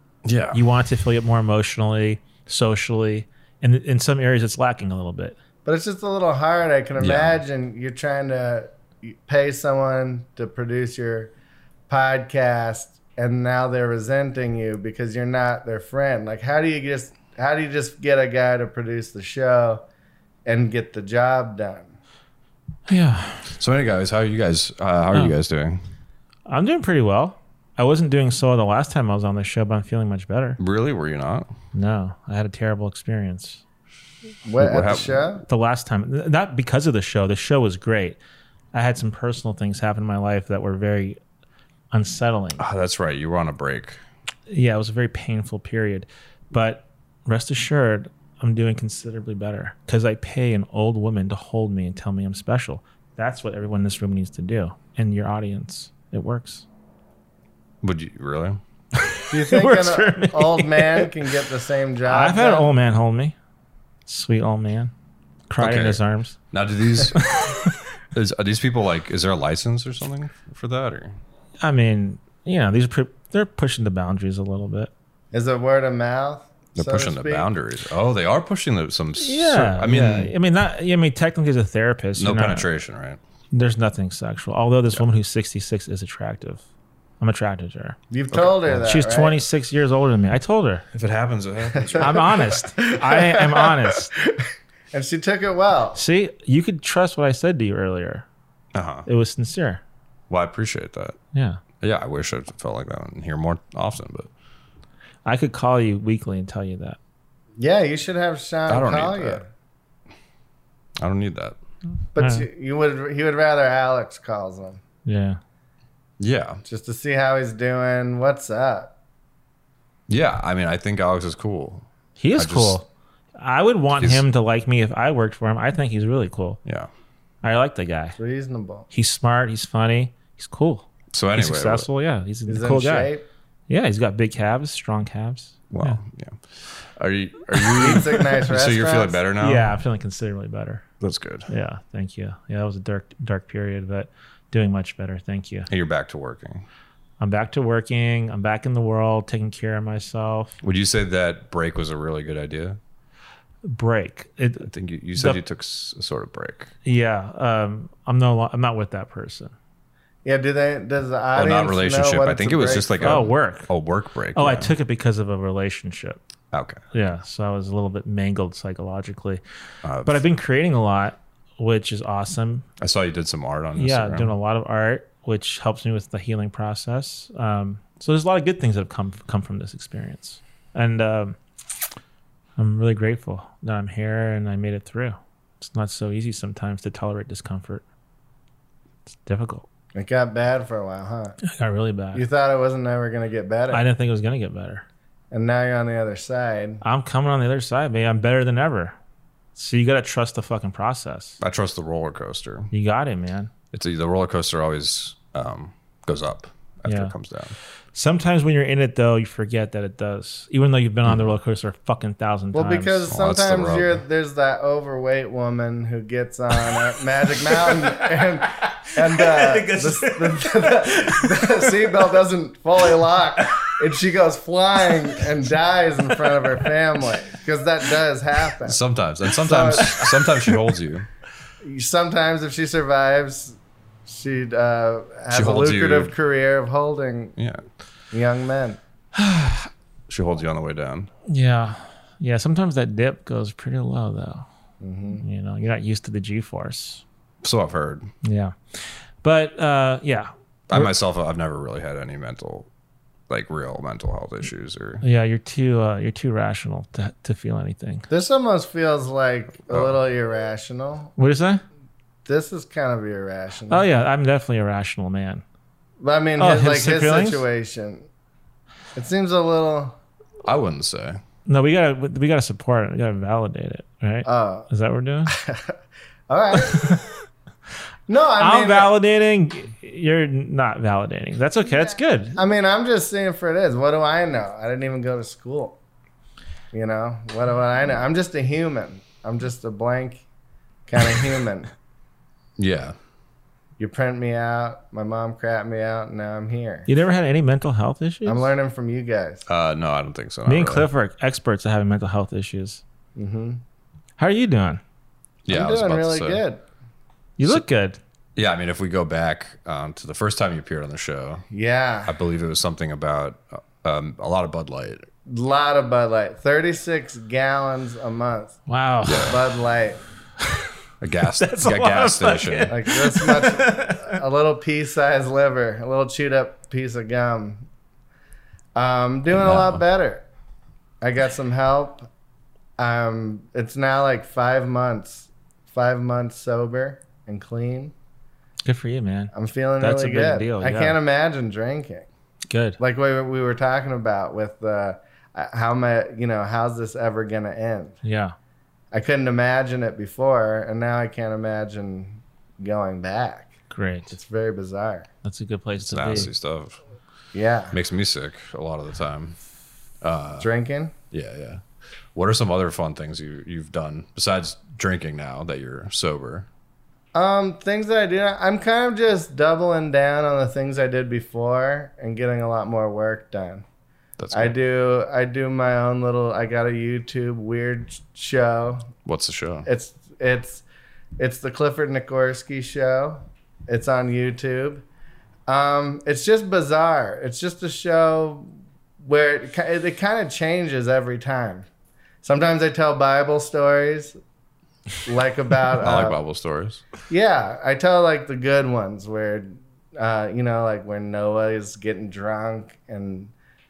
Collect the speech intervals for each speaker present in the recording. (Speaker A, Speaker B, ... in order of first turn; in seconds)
Speaker A: 0.2-0.6, 7.0-7.4, 23.6-25.8, 30.6-31.5, 34.6-35.3, 42.6-44.0, 57.8-58.6, 65.6-66.0, 66.5-67.4, 68.1-71.2, 76.8-80.3, 82.2-83.2, 88.3-88.7, 90.9-92.3, 98.7-99.0, 100.3-101.2, 101.8-104.3, 108.7-109.4, 111.0-111.5, 116.2-116.6, 120.1-121.8, 122.4-122.8, 124.0-124.2, 131.1-131.9, 135.7-139.8, 141.0-141.5, 145.7-146.7, 150.6-152.8, 154.7-156.7, 161.3-164.7, 166.5-166.8, 169.8-170.2, 172.8-174.3, 201.4-202.7, 203.7-207.5, 213.1-214.0, 228.6-231.1, 235.3-236.1, 237.4-237.6, 240.1-241.1, 247.4-248.1, 250.7-252.7, 253.3-255.0, 270.4-271.2, 292.6-292.9, 299.5-300.9, 305.4-306.4, 308.4-311.4, 312.1-315.1, 319.0-319.4, 321.0-322.8, 329.3-329.8, 355.8-356.8, 357.7-359.4, 360.0-360.5, 361.1-361.6, 362.1-366.5, 374.2-374.5, 379.1-379.7, 395.8-396.9
Speaker B: 0.5-5.4, 22.9-23.5, 26.5-30.6, 31.7-33.6, 35.5-38.2, 38.7-41.2, 41.9-42.6, 44.5-56.6, 59.1-61.1, 62.1-63.3, 64.0-64.9, 65.5-66.3, 67.0-67.8, 71.6-74.9, 79.2-82.7, 83.5-86.6, 87.2-88.0, 88.8-90.8, 92.0-94.1, 95.9-98.2, 99.0-99.8, 101.3-101.6, 105.2-107.0, 112.2-112.5, 115.0-115.4, 122.2-122.8, 123.4-126.6, 127.4-128.2, 128.9-133.1, 133.7-136.0, 139.4-140.8, 141.5-145.7, 147.2-150.5, 153.6-155.4, 156.8-159.5, 163.0-163.7, 164.3-166.2, 166.9-169.4, 170.0-172.7, 173.8-181.4, 182.6-187.8, 189.2-189.7, 191.5-192.2, 193.7-194.8, 196.8-198.9, 199.5-201.4, 202.7-203.5, 206.9-207.1, 207.9-213.1, 217.4-222.1, 223.4-223.7, 224.9-225.2, 239.3-239.6, 241.3-244.4, 245.2-247.0, 248.2-250.9, 255.0-258.1, 261.2-261.6, 263.7-265.4, 266.4-267.4, 271.4-275.3, 276.5-277.1, 278.4-282.4, 296.9-298.5, 300.4-302.8, 304.2-304.8, 307.4-308.0, 318.7-319.4, 321.4-324.2, 338.6-341.0, 342.5-342.8, 348.0-348.3, 353.7-354.1, 355.2-356.3
Speaker C: 5.6-11.3, 11.9-19.8, 20.4-21.9, 34.4-35.4, 59.3-62.7, 75.3-77.5, 88.1-89.4, 91.7-96.0, 107.6-109.5, 112.1-114.8, 116.6-118.9, 128.2-128.9, 132.5-133.2, 137.8-139.2, 160.2-163.2, 189.9-191.4, 192.1-193.8, 195.3-196.8, 212.5-228.8, 229.4-230.0, 231.6-237.3, 238.1-238.8, 244.8-245.2, 258.1-261.1, 262.2-263.9, 266.0-268.1, 268.9-270.0, 274.2-274.7, 275.3-275.8, 276.3-276.9, 278.1-278.9, 282.3-285.8, 286.7-290.2, 290.9-291.7, 293.8-296.9, 298.2-299.4, 303.1-303.6, 305.5-306.6, 311.5-312.1, 315.2-318.6, 319.3-320.0, 322.7-327.6, 328.8-330.2, 331.0-332.1, 332.8-337.9, 339.3-342.1, 342.8-347.9, 348.9-353.5, 354.1-355.1, 357.3-357.8, 360.4-360.9, 367.1-373.6, 374.3-378.9, 379.6-380.6, 381.2-384.8, 385.5-391.7, 392.2-394.2, 395.0-396.2, 397.1-403.3